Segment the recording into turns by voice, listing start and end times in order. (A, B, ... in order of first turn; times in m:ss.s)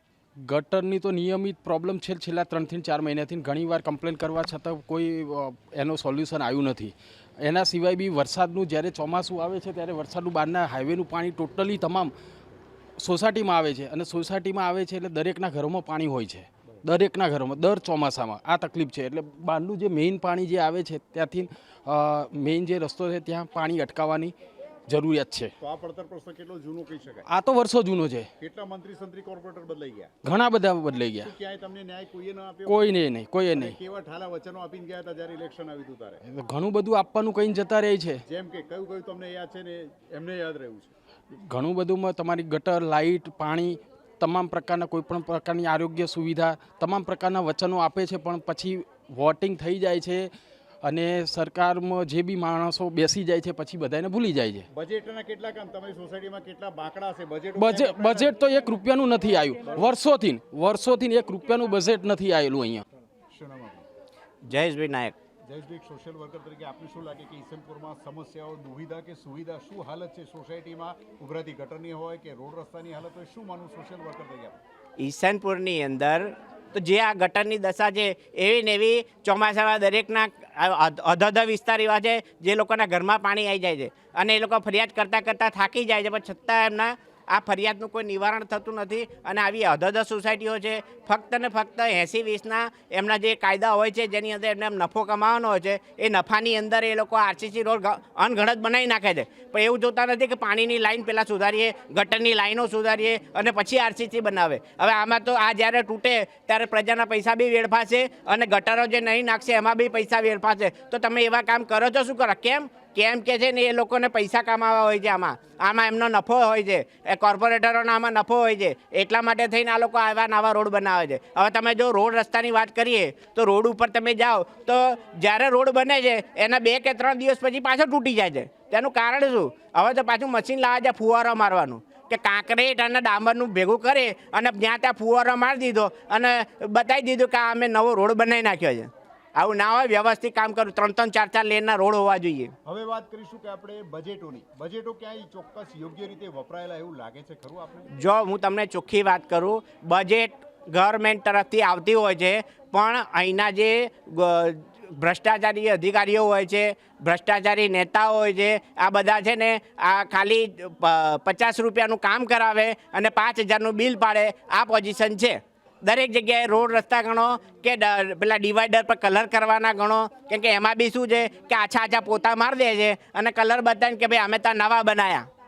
0:00.4-0:12.1 A
0:13.0-0:24.3 A
0:24.9-0:25.5 A
0:25.6-0:27.3 B
0:27.3-0:28.3 A
0:28.4-0:30.1 B
0:30.2-0:31.3 A
0:31.2-0:33.0 B
0:32.7-0:33.8 A
0:33.5-0:36.2 B
0:36.2-0:38.2 A
0:38.3-0:40.9 B
0:41.5-0:50.3 A
0:50.8-0:54.7 A
0:54.7-0:58.3 B
0:57.6-1:02.8 A
0:59.7-1:00.0 B
1:03.3-1:03.9 B
1:04.5-1:05.2 C
1:05.4-1:14.6 B
1:15.0-2:22.5 C
2:22.7-2:27.9 B
2:28.0-2:55.3 C